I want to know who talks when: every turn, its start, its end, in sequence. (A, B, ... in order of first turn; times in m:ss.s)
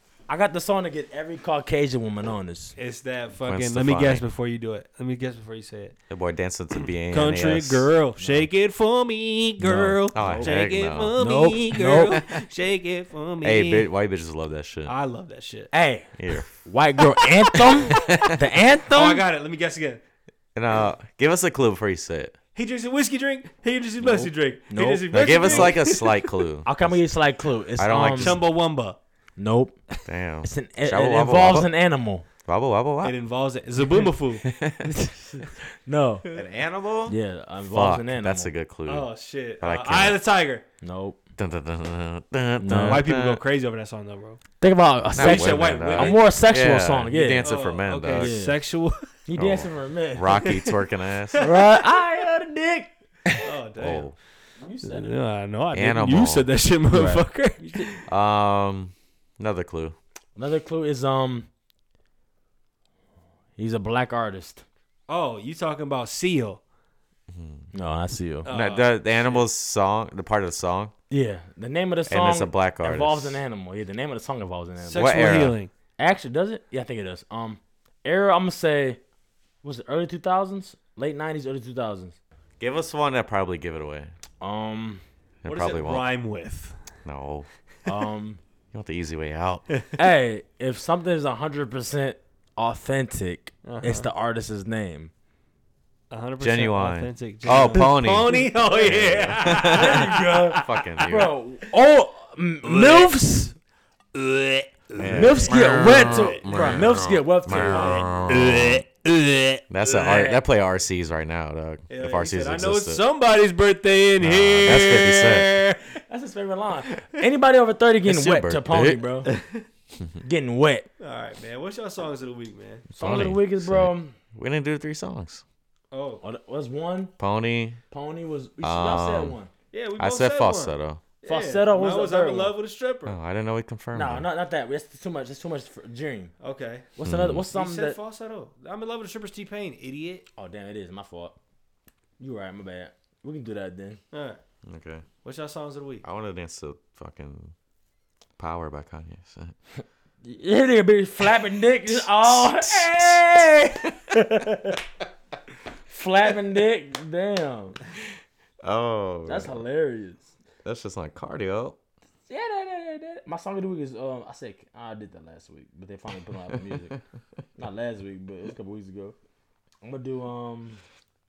0:00.3-0:02.7 A
0:02.8-0:06.0 B
0:03.4-0:04.2 C
0:06.1-0:08.4 C
0:07.1-0:13.9 B
0:09.6-0:11.2 C
0:10.2-0:10.6 A
0:11.2-0:12.2 A
0:13.4-0:14.9 C
0:14.9-0:15.7 B
0:15.7-0:19.2 A
0:16.2-0:16.5 C
0:17.5-0:18.3 B
0:17.9-0:18.4 C
0:18.9-0:20.0 B
0:20.5-0:22.4 C
0:22.5-0:26.4 B
0:24.0-0:25.7 A
0:25.1-0:27.0 C
0:26.6-0:28.4 A
0:27.8-0:28.4 C
0:28.2-0:29.0 B
0:29.4-0:29.8 A
0:30.0-0:31.7 C
0:30.4-0:32.2 A
0:32.4-0:33.2 C
0:33.0-0:34.5 B
0:34.4-0:34.9 C
0:34.8-0:36.3 A
0:36.3-0:39.1 C
0:37.1-0:38.5 A
0:38.9-0:40.6 B
0:39.6-0:40.2 C
0:40.8-0:41.2 A
0:41.4-0:43.4 C
0:42.6-0:43.0 A
0:42.7-0:44.4 B
0:44.6-0:47.5 A
0:45.1-0:48.3 C
0:45.2-0:46.2 B
0:47.4-0:49.1 B
0:48.1-0:48.6 A
0:49.3-0:50.5 A
0:49.4-0:51.4 C
0:50.4-0:50.8 B
0:51.3-0:51.8 B
0:51.4-0:53.4 A
0:53.3-0:54.2 B
0:53.8-0:54.1 C
0:54.6-0:55.1 A
0:54.8-0:58.0 B
0:55.7-0:56.5 C
0:56.9-0:58.0 A
0:58.0-1:00.0 C
1:00.4-1:01.5 A
1:03.6-1:04.6 A
1:05.1-1:06.6 B
1:07.3-1:07.7 C
1:07.7-1:08.5 A
1:08.4-1:09.4 B
1:08.5-1:10.9 C
1:11.1-1:15.1 A
1:12.1-1:13.4 C
1:14.9-1:15.7 B
1:14.9-1:15.5 C
1:16.0-1:19.0 A
1:19.6-1:22.2 A
1:22.6-1:24.1 C
1:24.4-1:25.0 A
1:25.4-1:26.1 C
1:25.4-1:26.8 B
1:27.0-1:27.5 C
1:27.8-1:28.4 A
1:28.7-1:29.6 C
1:30.0-1:35.1 A
1:33.6-1:34.1 B
1:36.1-1:41.1 B
1:36.4-1:41.3 C
1:39.6-1:43.5 A
1:42.6-1:43.3 B
1:44.1-1:46.8 B
1:45.0-1:48.8 C
1:45.1-1:48.1 A
1:47.5-1:49.6 B
1:49.7-1:53.0 C
1:49.8-1:50.4 A
1:51.9-1:56.0 B
1:54.2-1:55.6 C
1:56.1-1:59.3 A
1:58.0-1:59.0 C
1:59.3-1:59.6 B
2:00.2-2:00.9 A
2:01.0-2:02.9 B
2:02.9-2:04.2 A
2:03.0-2:05.4 C
2:05.9-2:06.2 B
2:06.2-2:07.1 A
2:07.2-2:07.8 C
2:07.9-2:09.5 A
2:08.6-2:09.4 C
2:09.7-2:13.2 B
2:10.0-2:11.0 C
2:11.2-2:12.5 A
2:13.0-2:14.3 C
2:13.9-2:16.3 A
2:16.4-2:20.2 B
2:17.0-2:18.0 A
2:17.0-2:17.4 C
2:20.4-2:21.4 A
2:22.2-2:24.0 A
2:24.1-2:24.4 B
2:24.6-2:25.0 C
2:25.2-2:26.0 B
2:26.0-2:27.5 C
2:28.4-2:29.5 C
2:30.2-2:34.8 A
2:31.9-2:34.2 C
2:35.9-2:37.8 A
2:38.6-2:39.6 C
2:39.2-2:40.3 A
2:40.6-2:41.8 C
2:42.3-2:47.0 A
2:47.6-2:49.2 A
2:49.8-2:50.8 A